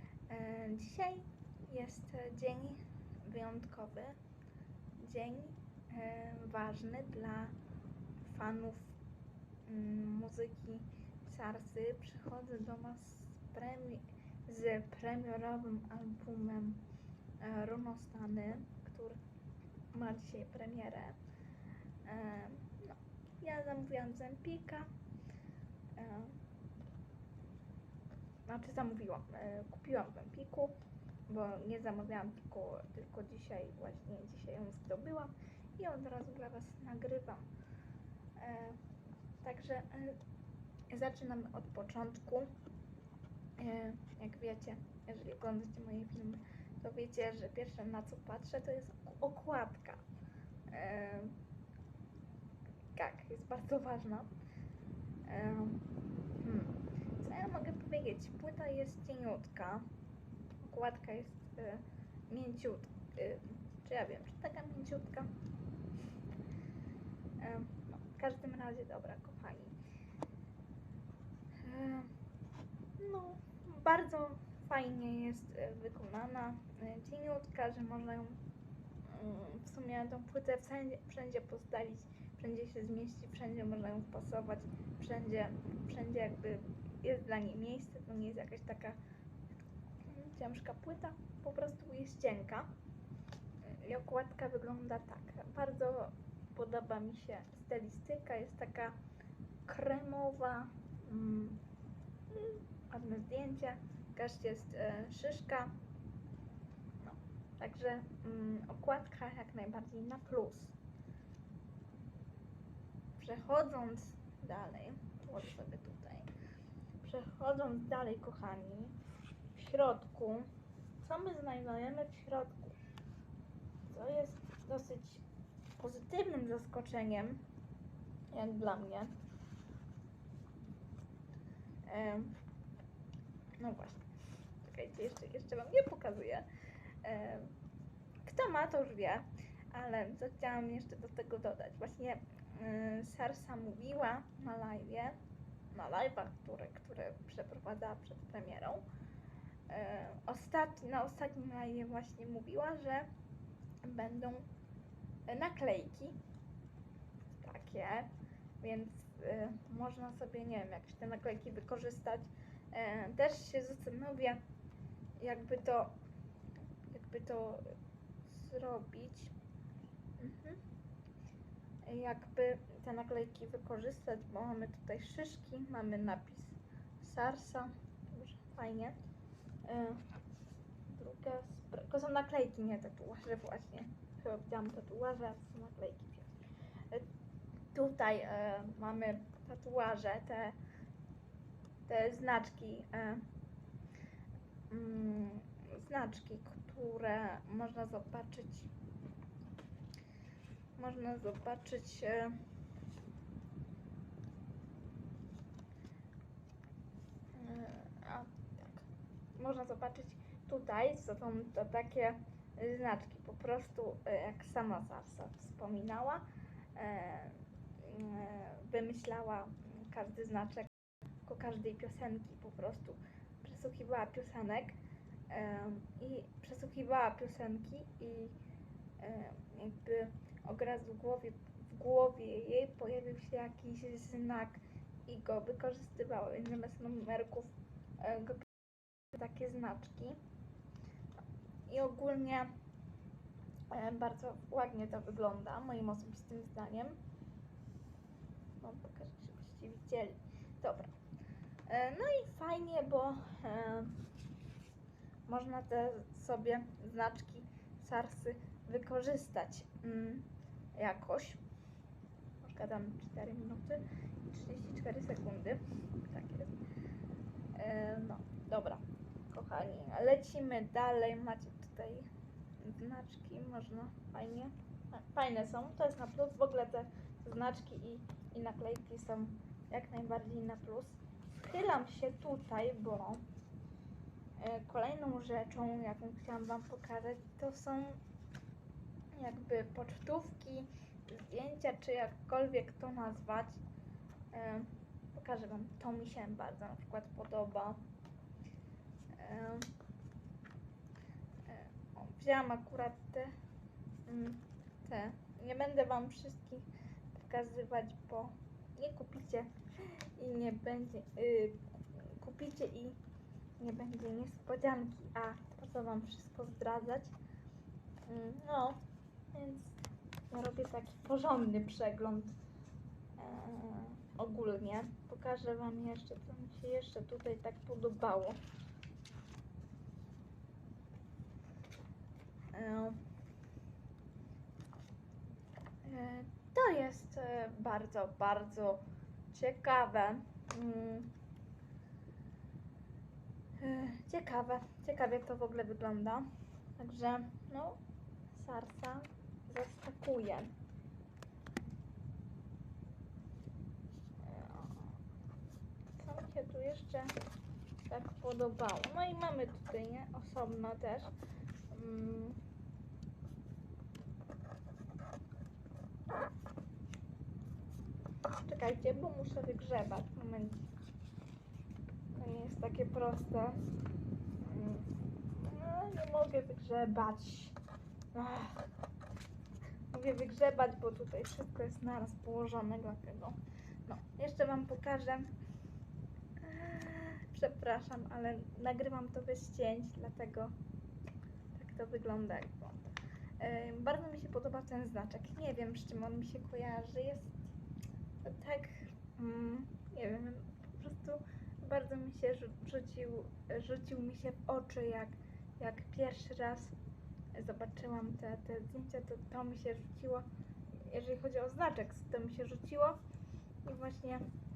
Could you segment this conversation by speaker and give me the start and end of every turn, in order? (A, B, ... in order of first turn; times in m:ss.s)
0:00.3-0:04.2 A
0:05.0-0:07.6 A
0:08.2-0:08.9 A
0:09.6-0:16.8 A
0:17.4-0:19.2 A
0:19.9-0:21.2 A
0:22.0-0:24.9 A
0:26.0-0:26.4 A
0:28.5-0:30.8 A
0:31.3-0:37.5 A
0:38.4-0:38.8 A
0:39.4-0:40.2 A
0:40.9-0:42.5 A
0:43.6-0:50.0 A
0:50.7-0:51.4 A
0:52.9-0:54.3 A
0:55.2-0:59.9 A
1:00.6-1:05.3 A
1:07.4-1:09.8 A
1:11.6-1:12.1 A
1:13.0-1:18.4 A
1:19.0-1:29.0 A
1:30.0-1:32.7 A
1:33.6-1:39.0 A
1:39.6-1:41.6 A
1:42.3-1:45.8 A
1:47.0-1:50.7 A
1:53.2-1:56.3 A
1:57.0-1:59.0 A
1:59.5-2:00.5 A
2:01.0-2:02.8 A
2:03.8-2:05.2 A
2:05.8-2:07.4 A
2:08.3-2:09.2 A
2:11.8-2:12.3 A
2:13.6-2:14.0 A
2:14.6-2:16.5 A
2:17.0-2:17.6 A
2:18.2-2:25.2 A
2:25.7-2:28.8 A
2:29.7-2:33.1 A
2:33.8-2:34.5 A
2:35.3-2:36.2 A
2:37.3-2:38.1 A
2:38.6-2:44.4 A
2:45.2-2:46.0 A
2:46.9-2:47.7 A
2:48.3-2:49.3 A
2:50.2-2:50.6 A
2:51.8-2:59.0 A
2:59.6-3:00.0 A
3:00.9-3:06.3 A
3:07.7-3:10.6 A
3:11.9-3:13.2 A
3:14.7-3:18.7 A
3:20.8-3:22.4 A
3:27.3-3:40.7 A
3:41.2-3:44.8 A
3:45.3-3:48.4 A
3:49.0-3:58.6 A
3:59.1-4:00.2 A
4:01.7-4:02.5 A
4:03.7-4:07.0 A
4:08.6-4:10.9 A
4:11.7-4:14.0 A
4:15.3-4:21.4 A
4:22.4-4:26.6 A
4:27.5-4:32.1 A
4:32.6-4:43.2 A
4:44.4-4:48.0 A
4:49.1-4:53.6 A
4:54.3-4:57.8 A
4:59.1-4:59.7 A
5:01.4-5:03.3 A
5:04.1-5:13.0 A
5:13.6-5:17.1 A
5:18.1-5:18.8 A
5:19.3-5:19.7 A
5:20.3-5:22.4 A
5:23.2-5:28.4 A
5:32.5-5:33.0 A
5:35.8-5:41.1 A
5:43.6-5:46.2 A
5:46.8-5:47.8 A
5:48.3-5:50.5 A
5:54.2-5:55.0 A
5:56.0-5:57.1 A
5:57.9-6:01.1 A
6:01.7-6:02.4 A
6:08.4-6:10.6 A
6:12.1-6:13.6 A
6:14.4-6:17.5 A
6:18.1-6:18.6 A
6:19.9-6:25.3 A
6:26.4-6:30.5 A
6:31.5-6:37.5 A
6:38.2-6:46.7 A
6:47.3-6:50.3 A
6:50.8-6:53.0 A
6:53.6-6:54.2 A